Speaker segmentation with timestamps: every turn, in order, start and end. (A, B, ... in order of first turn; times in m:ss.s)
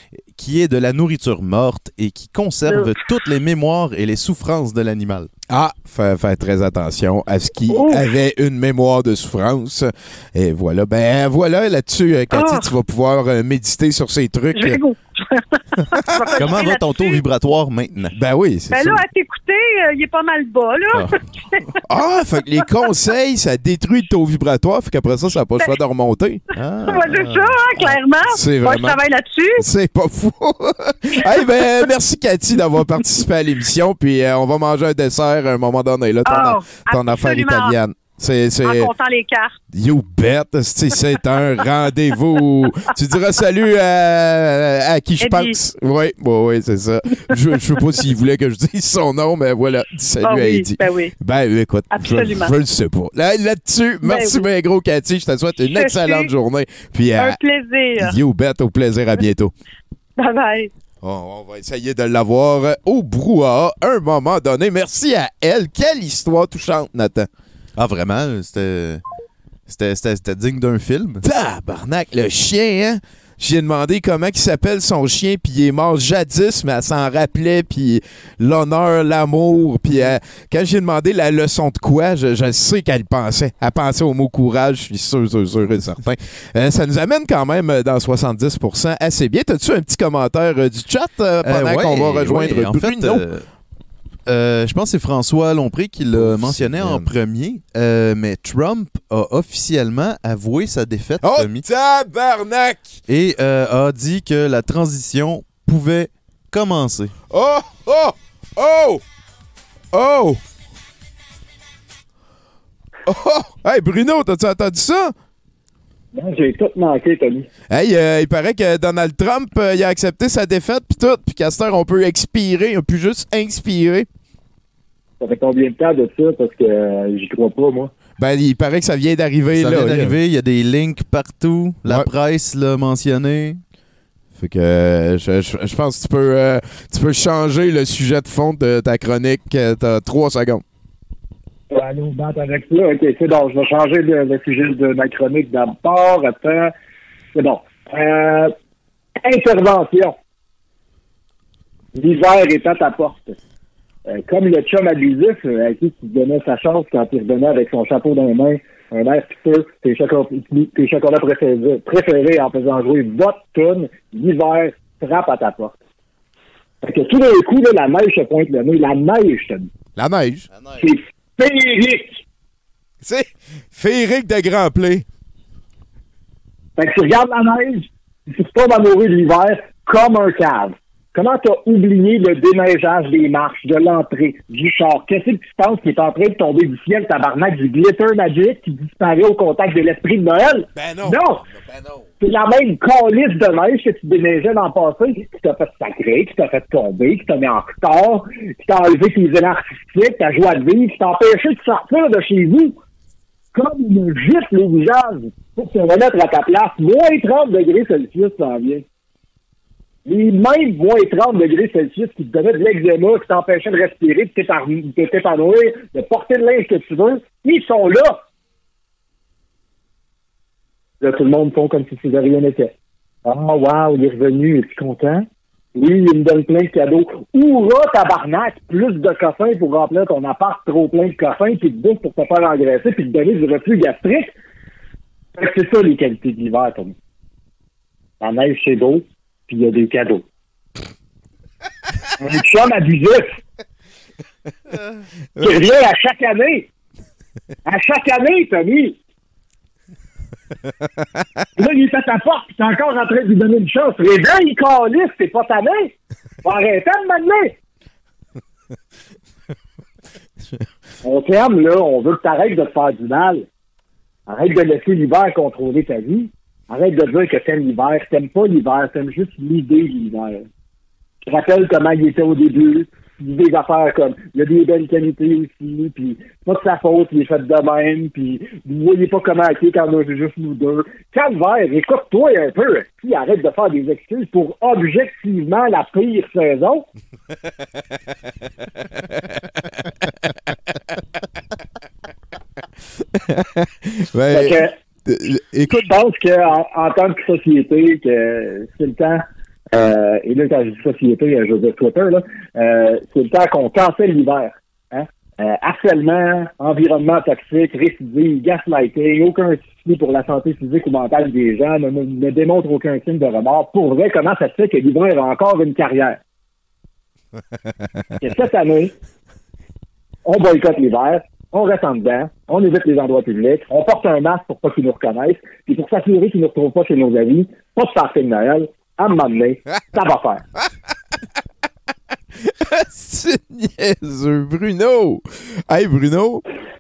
0:00.4-0:05.3 A
0:05.5-0:14.8 B
0:07.7-0:08.1 C
0:12.3-0:12.7 C
0:14.5-0:17.2 C
0:16.0-0:16.4 B
0:16.4-0:18.2 A
0:18.2-0:19.0 B
0:18.7-0:21.6 C
0:20.9-0:21.2 A
0:21.9-0:26.4 B
0:26.6-0:27.6 A
0:26.9-0:29.6 C
0:28.3-0:29.0 B
0:29.6-0:38.9 B
0:36.2-0:37.8 C
0:38.6-0:39.6 C
0:39.7-0:57.4 B
0:45.2-0:45.6 C
0:50.2-0:51.1 C
0:51.9-0:52.5 C
0:54.0-0:54.4 C
0:55.7-0:56.3 C
0:57.2-0:58.2 C
0:58.0-0:59.5 B
1:00.2-1:00.7 C
1:01.0-1:07.3 B
1:07.8-1:09.0 A
1:09.7-1:11.2 A
1:11.2-1:33.2 B
1:31.4-1:33.4 A
1:34.3-1:41.6 A
1:36.1-1:37.1 B
1:41.2-1:43.0 B
1:43.1-1:47.1 A
1:47.3-1:49.0 B
1:49.9-1:50.4 B
1:53.1-1:55.1 B
1:56.1-1:57.5 D
1:57.7-2:04.1 B
2:05.2-2:07.9 D
2:08.2-2:10.2 B
2:09.5-2:13.6 A
2:14.4-2:20.6 B
2:21.7-2:26.7 D
2:27.4-2:28.5 D
2:29.2-2:30.2 D
2:32.0-2:33.4 D
2:34.1-2:45.8 D
2:46.8-2:49.7 D
2:50.0-2:50.5 B
2:50.5-2:50.8 A
2:50.8-2:52.2 D
2:53.0-2:55.0 B
2:56.8-3:11.4 D
3:10.8-3:12.0 B
3:12.2-3:22.8 D
3:23.5-3:28.8 D
3:30.1-3:38.2 D
3:41.0-3:42.7 D
3:43.2-3:54.4 D
3:55.4-3:57.0 D
3:58.2-4:00.2 D
4:02.2-4:03.4 D
4:05.4-4:06.7 D
4:07.7-4:09.0 D
4:11.6-4:15.9 D
4:16.4-4:17.6 D
4:21.0-4:23.5 D
4:24.3-4:30.5 D
4:31.3-4:46.9 D
4:53.1-4:55.9 B
4:54.3-4:54.7 D
4:55.8-5:16.2 D
5:18.2-5:18.9 D
5:20.2-5:30.4 D
5:32.4-5:36.4 B